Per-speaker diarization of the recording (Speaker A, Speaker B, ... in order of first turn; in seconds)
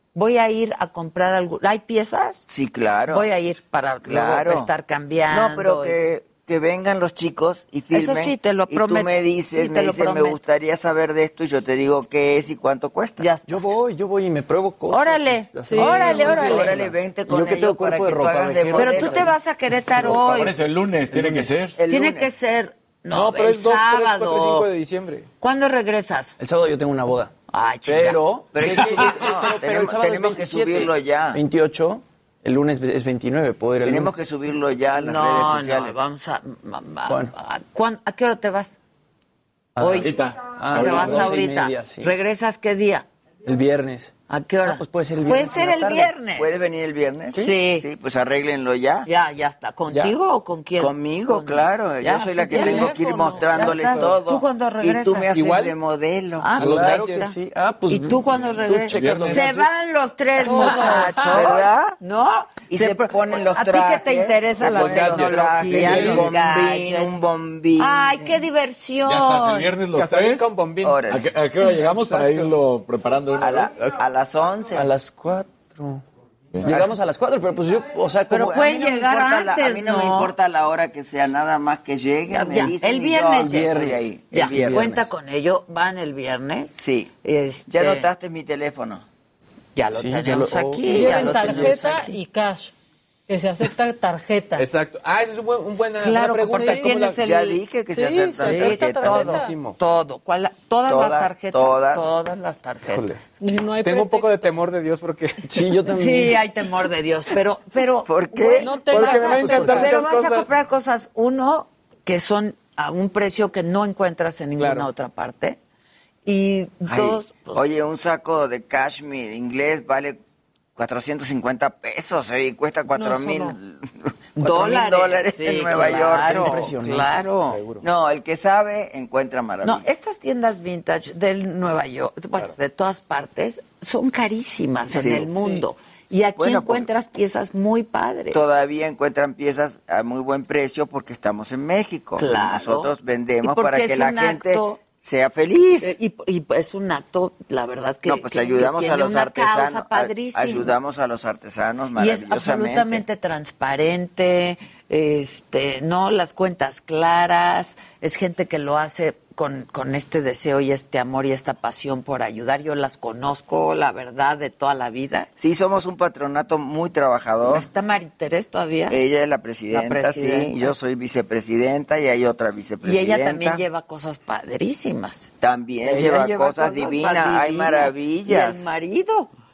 Speaker A: 0.1-2.5, 3.1-6.0, 7.9-10.4, 13.2-13.7, 14.9-16.7, 18.8-20.6, 21.9-24.7, 25.4-26.4, 27.5-28.2, 34.9-38.8, 39.8-40.1, 40.7-43.1, 44.3-46.6, 47.4-47.9, 49.1-55.4, 56.4-57.4, 57.9-67.2, 67.8-69.7, 78.3-80.3, 82.3-88.1, 89.7-92.2, 96.0-97.6, 98.4-103.2, 106.0-115.6, 116.3-117.6, 124.4-127.6, 129.6-138.4, 142.2-144.8, 145.8-150.7, 151.9-165.3, 167.5-169.0, 169.7-170.8, 172.8-179.3
Speaker B: 2.5-3.3, 4.0-4.7, 5.3-13.3, 15.8-19.3, 21.8-22.3, 28.5-31.4, 33.8-36.0, 45.6-49.1, 50.8-57.0, 60.6-62.0, 62.7-68.1, 70.8-71.2, 73.4-74.9, 78.4-84.9, 86.8-87.1, 87.7-89.0, 97.2-99.3, 100.9-102.1, 108.0-108.8, 116.9-120.2, 120.8-126.5, 127.8-129.9, 134.9-135.4, 136.4-136.9, 138.3-145.9, 148.1-153.0, 165.4-167.7, 168.9-173.6, 175.4-178.7
Speaker C: 13.5-19.4, 21.2-21.5, 26.4-27.3, 27.9-34.3, 37.1-37.3, 39.8-42.1, 43.5-44.1, 44.6-46.1, 56.5-59.7, 74.7-76.0, 76.6-78.5, 83.4-85.1, 89.9-91.9, 105.4-106.4, 109.2-109.9, 125.8-127.2
Speaker D: 15.7-16.6, 52.5-53.5, 60.4-61.4, 90.9-92.7, 93.3-94.7, 96.5-97.0, 97.9-99.5, 103.4-104.4, 108.5-110.0, 122.9-123.5
Speaker E: 20.0-21.8, 40.0-40.9, 59.0-59.4, 69.0-70.5, 71.0-73.8
Speaker F: 23.1-25.3, 53.6-54.1, 55.3-55.8, 56.6-57.3, 64.7-66.3, 69.9-71.0, 71.8-72.1, 94.6-97.2, 99.0-99.8, 102.9-103.2, 103.8-105.4, 108.9-110.5, 114.6-114.9, 127.5-127.8